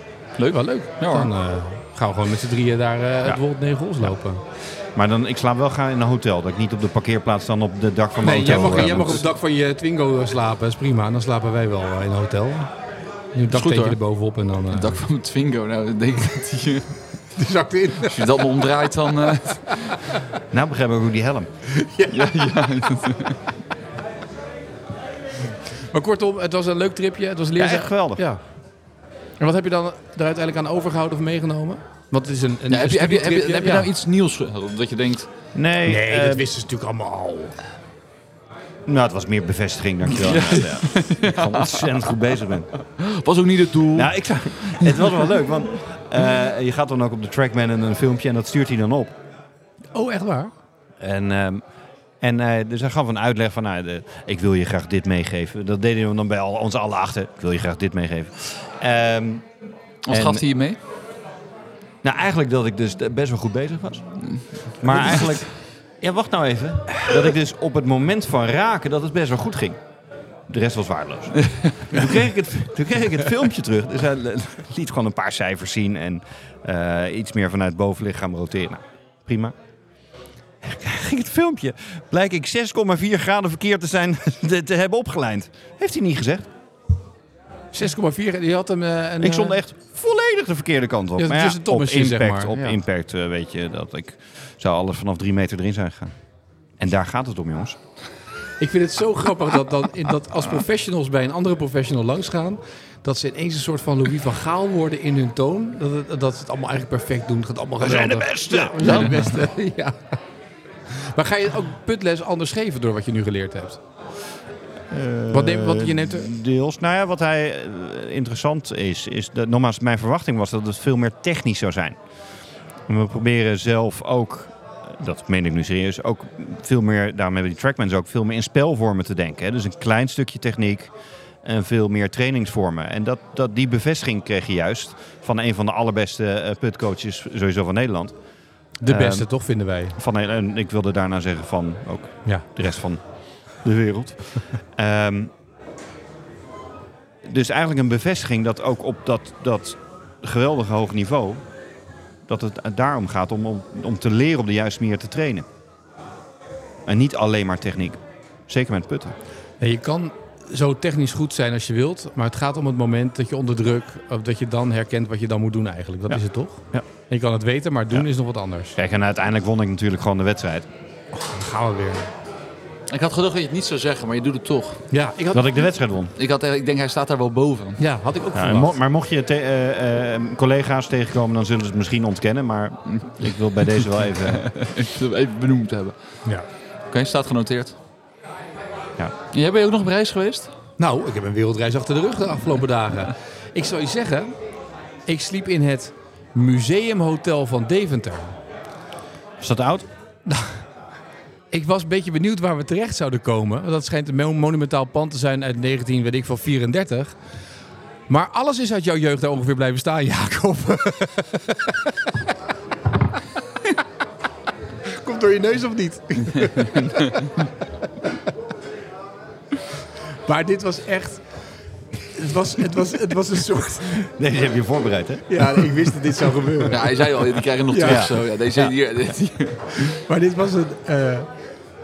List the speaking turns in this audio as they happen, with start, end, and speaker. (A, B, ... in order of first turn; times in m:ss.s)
0:00.4-0:01.3 A
0:00.4-0:04.4 B
0:04.9-0:09.2 C
0:08.2-0:12.7 B
0:13.3-0:15.0 B
0:13.5-0:14.0 A
0:14.7-0:17.0 A
0:17.4-0:18.3 B
0:18.0-0:19.9 A
0:20.5-0:21.5 C
0:21.7-0:22.5 B
0:22.1-0:23.4 A
0:25.9-0:28.4 B
0:27.6-0:28.2 C
0:29.4-0:33.9 B
0:32.7-0:35.3 A
0:35.5-0:36.4 C
0:35.8-0:37.6 B
0:38.8-0:42.7 C
0:40.1-0:41.9 A
0:43.0-0:45.3 A
0:43.9-0:49.1 C
0:49.9-0:50.5 B
0:51.0-0:51.6 C
0:52.2-0:59.4 C
1:00.0-1:00.8 A
1:00.1-1:00.4 C
1:02.0-1:04.1 C
1:04.2-1:05.4 A
1:04.8-1:09.8 C
1:10.5-1:19.5 C
1:20.6-1:26.5 C
1:27.7-1:29.6 B
1:29.2-1:36.1 C
1:31.2-1:32.7 B
1:36.8-1:37.8 C
1:38.6-1:50.2 B
1:47.8-1:49.4 C
1:48.8-1:49.1 A
1:50.9-1:53.8 B
1:54.9-2:02.0 C
1:55.3-1:56.3 B
2:02.9-2:10.9 C
2:11.4-2:18.1 C
2:18.8-2:20.0 B
2:18.9-2:19.3 C
2:20.0-2:23.0 C
2:23.6-2:25.3 C
2:27.2-2:31.4 C
2:32.3-2:35.5 C
2:36.8-2:39.1 C
2:39.6-2:48.8 B
2:48.8-2:50.7 C
2:51.2-2:52.1 B
2:52.9-2:54.8 A
2:54.9-2:55.6 B
2:55.3-2:56.1 C
2:56.2-2:57.8 A
2:57.8-2:58.8 B
2:58.3-3:04.5 C
3:02.9-3:03.7 A
3:04.2-3:05.9 A
3:06.9-3:07.8 A
3:09.3-3:10.5 A
3:10.8-3:14.3 B
3:15.1-3:18.4 B
3:19.4-3:19.9 C
3:20.3-3:20.6 B
3:21.5-3:27.1 B
3:28.1-3:32.1 B
3:34.9-3:37.3 B
3:36.4-3:37.2 A
3:40.3-3:41.2 B
3:42.0-3:44.1 B
3:44.2-3:45.8 C
3:45.3-3:47.1 B
3:46.7-3:50.0 A
3:47.7-3:48.1 B
3:47.8-3:48.7 C
3:49.7-3:51.3 B